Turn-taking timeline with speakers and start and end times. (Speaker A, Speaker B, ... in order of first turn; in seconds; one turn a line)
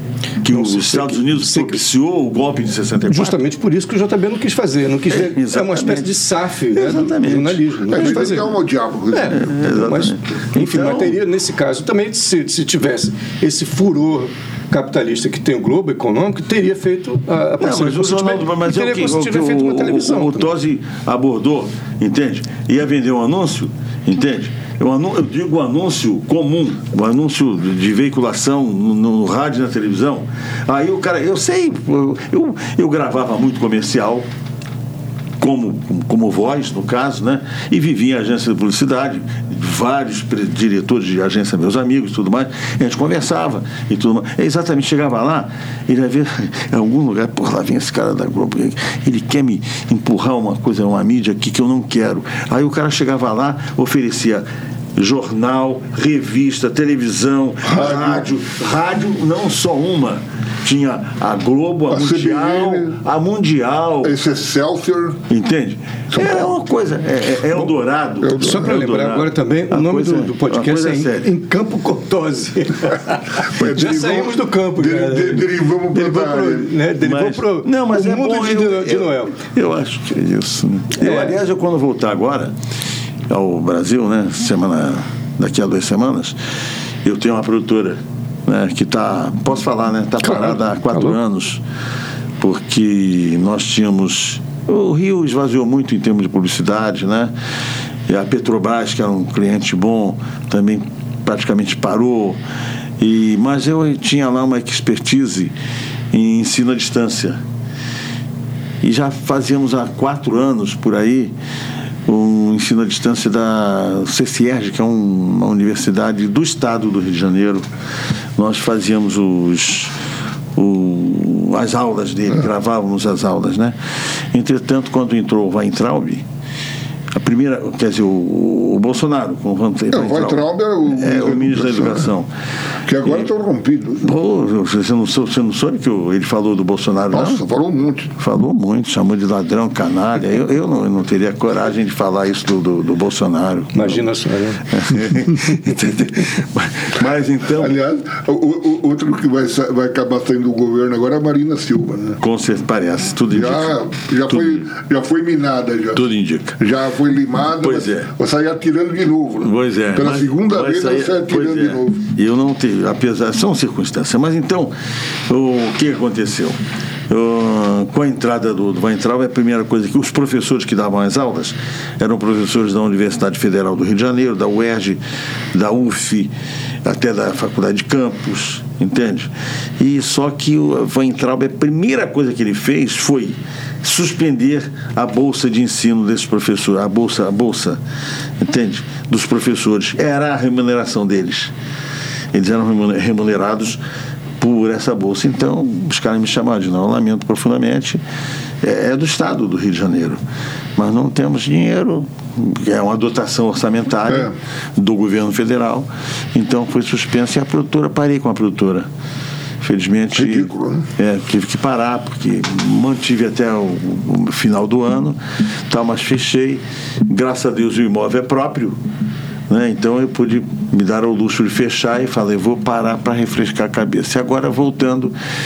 Speaker A: 0.4-3.4
Speaker B: 0.5-1.8
Speaker B: 3.1-8.5
Speaker A: 5.1-8.3
Speaker C: 7.9-9.5
Speaker B: 9.1-20.5
Speaker A: 9.3-11.2
Speaker A: 17.6-34.3
Speaker A: 35.4-54.5
Speaker A: 55.0-64.2
Speaker C: 57.6-58.3
Speaker C: 61.9-63.0
Speaker C: 64.0-65.2
Speaker A: 65.3-71.3
Speaker C: 66.1-66.5
Speaker C: 68.2-68.7
Speaker B: 68.3-79.4
Speaker C: 73.5-76.7
Speaker A: 73.6-74.0
Speaker A: 77.0-82.5
Speaker B: 81.0-81.4
Speaker A: 83.3-86.4
Speaker A: 87.0-91.6
Speaker B: 90.2-91.2
Speaker A: 92.4-97.3
Speaker A: 98.1-102.4
Speaker A: 103.0-105.5
Speaker A: 106.1-107.4
Speaker A: 108.8-111.3
Speaker A: 112.1-117.7
Speaker A: 118.4-119.9
Speaker A: 120.5-123.8
Speaker A: 124.3-126.2
Speaker A: 127.1-132.3
Speaker C: 129.9-132.1
Speaker C: 132.9-134.1
Speaker A: 134.0-137.4
Speaker C: 137.1-138.2
Speaker A: 138.2-144.0
Speaker B: 143.7-144.7
Speaker A: 144.7-147.8
Speaker C: 147.6-152.2
Speaker A: 152.2-154.7
Speaker C: 153.3-156.0
Speaker A: 155.9-156.6
Speaker C: 156.6-162.1
Speaker A: 157.6-158.1
Speaker A: 159.4-164.7
Speaker A: 165.3-166.6
Speaker A: 167.1-175.0
Speaker A: 175.5-176.3
Speaker A: 176.8-187.8
Speaker A: 188.4-191.5
Speaker A: 192.3-193.8
Speaker A: 194.4-198.0
Speaker A: 198.6-200.2
Speaker A: 200.8-208.9
Speaker A: 209.6-218.8
Speaker C: 210.2-210.9
Speaker A: 219.5-225.1